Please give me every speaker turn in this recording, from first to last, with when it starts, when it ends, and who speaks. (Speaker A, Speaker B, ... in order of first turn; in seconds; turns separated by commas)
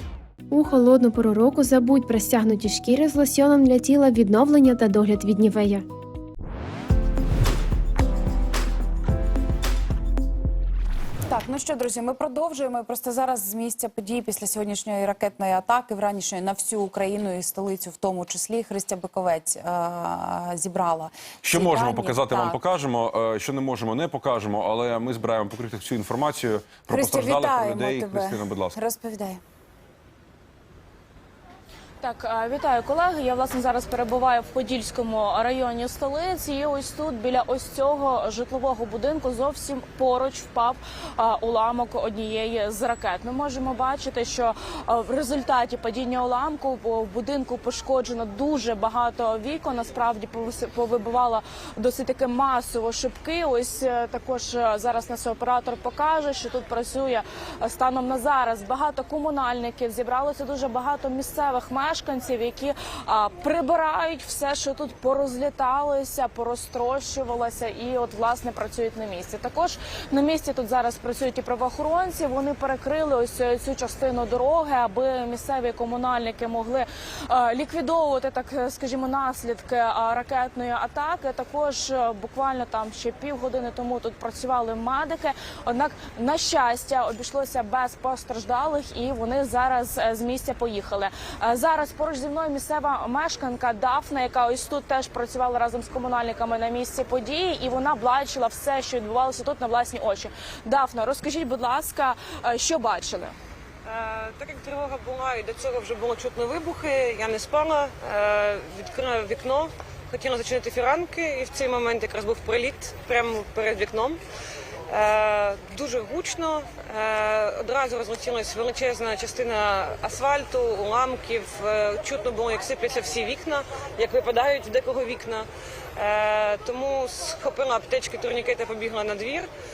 Speaker A: 0.5-5.8, Speaker B: 11.3-22.6, Speaker C: 21.4-28.8, Speaker B: 26.9-29.4, Speaker D: 32.0-103.3, Speaker E: 103.9-114.2, Speaker E: 114.9-129.5